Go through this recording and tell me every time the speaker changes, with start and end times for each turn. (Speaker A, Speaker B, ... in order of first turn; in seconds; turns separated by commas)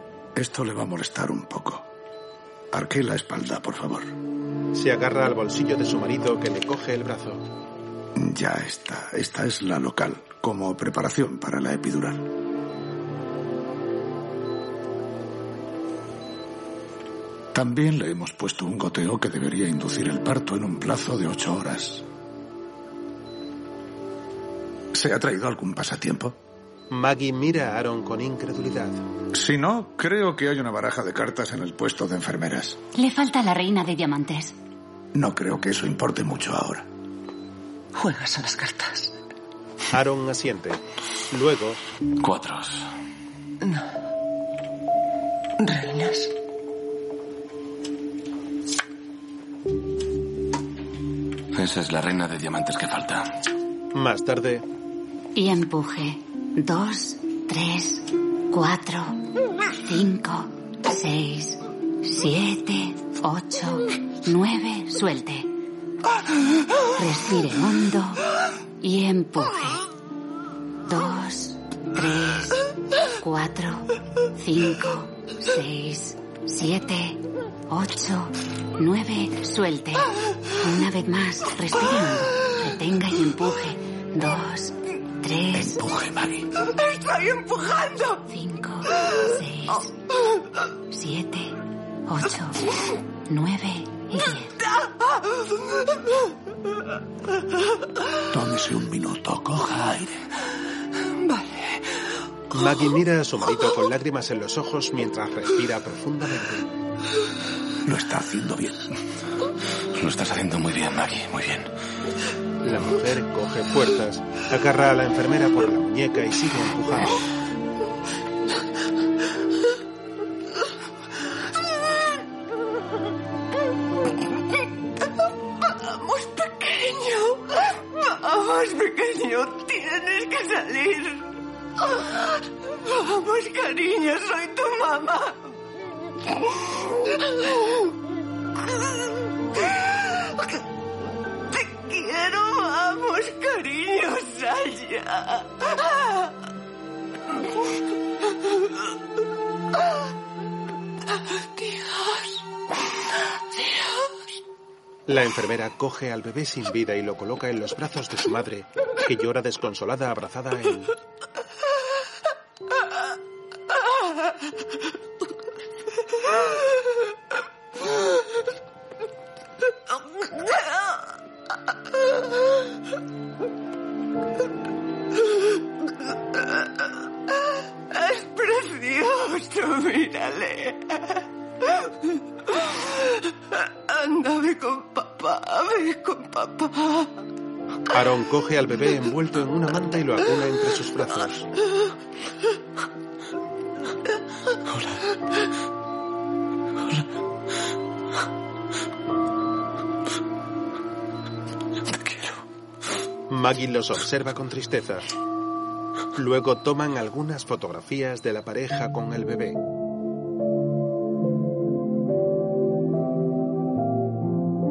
Speaker A: 0.3-1.9, Speaker A: 2.7-4.1, Speaker B: 4.7-7.4, Speaker A: 8.2-12.2, Speaker A: 17.5-22.0, Speaker A: 24.9-26.3, Speaker B: 26.9-29.0, Speaker A: 29.3-32.8, Speaker C: 32.9-34.5, Speaker A: 35.1-36.9, Speaker D: 37.9-39.1, Speaker B: 39.9-41.8, Speaker E: 42.2-42.8, Speaker D: 45.6-46.3, Speaker E: 51.5-53.3, Speaker B: 53.9-54.6, Speaker C: 55.3-59.2, Speaker C: 59.8-65.5, Speaker C: 67.0-68.2, Speaker C: 68.8-69.8, Speaker C: 70.9-72.6, Speaker C: 73.2-80.1, Speaker C: 80.6-85.8, Speaker A: 85.6-86.4, Speaker F: 86.7-88.2, Speaker C: 88.3-89.9, Speaker C: 90.9-91.5, Speaker C: 92.1-92.6, Speaker C: 93.3-94.5, Speaker A: 98.3-100.2, Speaker D: 101.1-101.8, Speaker B: 102.5-106.7, Speaker A: 107.8-108.9, Speaker E: 109.9-111.7, Speaker B: 112.6-117.2, Speaker F: 125.7-131.2, Speaker F: 131.9-132.2, Speaker F: 132.9-135.4, Speaker F: 141.5-145.9, Speaker F: 151.6-152.4, Speaker B: 155.1-160.9, Speaker F: 177.9-181.1, Speaker F: 183.9-187.1, Speaker B: 187.9-191.5, Speaker B: 203.3-205.1, Speaker B: 206.1-209.6